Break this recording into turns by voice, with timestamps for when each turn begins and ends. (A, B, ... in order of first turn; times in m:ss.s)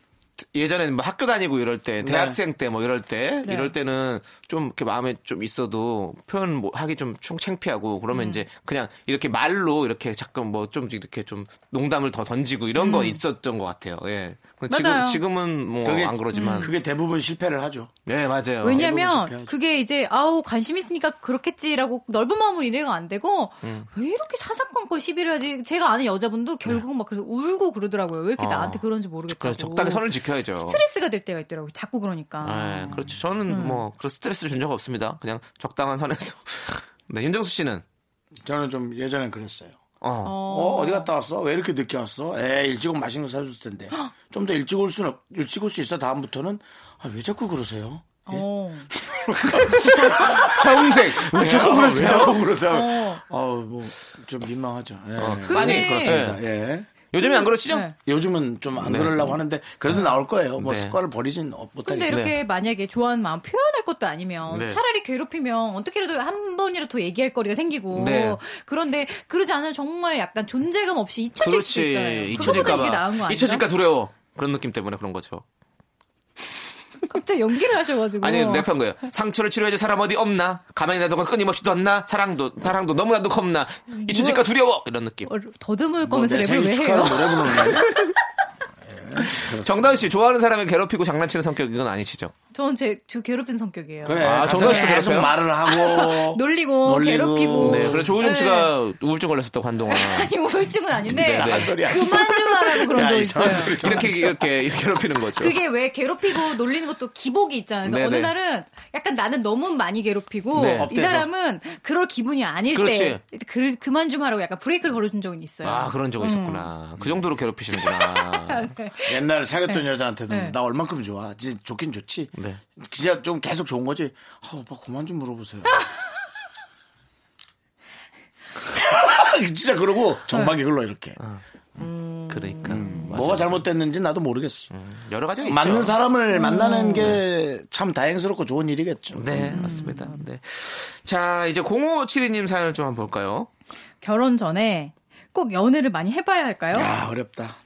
0:00.5-0:16.7 A
0:02.0-0:02.4 B
0:03.4-0:03.7 C
0:08.1-0:08.4 C
0:12.8-0:13.2 C
0:14.7-0:15.2 C
0:15.8-0:17.9 B
0:16.3-0:16.7 C
0:18.0-0:18.9 A
0:18.6-0:33.8 C
0:18.6-0:19.5 B
0:23.6-0:23.9 A
0:28.4-0:30.8 A
0:32.4-0:37.8 A
0:38.4-0:39.8 B
0:40.0-0:40.4 A
0:40.2-0:41.1 C
0:40.4-0:56.9 B
0:48.2-0:48.9 C
0:49.8-0:52.4 A
0:52.7-0:53.2 C
0:55.2-0:56.4 A
0:55.4-0:56.2 C
0:57.1-0:57.9 A
0:57.2-0:57.9 C
0:58.0-1:02.2 B
0:58.8-0:59.4 A
1:00.6-1:01.0 A
1:01.8-1:13.7 C
1:04.5-1:04.8 A
1:07.9-1:08.4 A
1:11.4-1:15.4 A
1:17.0-1:18.7 C
1:18.2-1:25.3 A
1:23.9-1:24.4 C
1:25.2-1:28.0 C
1:26.0-1:27.9 B
1:27.8-1:28.1 A
1:28.8-1:29.9 B
1:29.2-1:32.3 A
1:32.5-1:38.8 C
1:34.0-1:38.1 B
1:34.2-1:35.3 A
1:37.6-1:40.3 A
1:39.9-1:44.3 C
1:41.0-1:44.3 B
1:41.1-1:41.8 A
1:43.4-1:45.6 A
1:45.4-1:56.7 C
1:47.8-1:48.3 A
1:50.5-1:50.9 A
1:50.8-1:51.3 B
1:52.7-1:53.2 A
1:55.6-1:58.7 A
1:57.8-2:00.5 C
1:59.0-2:05.9 B
2:02.3-2:02.6 A
2:08.7-2:11.2 B
2:11.8-2:13.0 C
2:12.3-2:13.6 A
2:12.6-2:14.7 B
2:14.7-2:16.0 A
2:15.4-2:19.7 B
2:16.3-2:17.1 C
2:19.1-2:23.5 A
2:19.5-2:20.2 C
2:24.0-2:26.9 C
2:26.7-2:27.6 B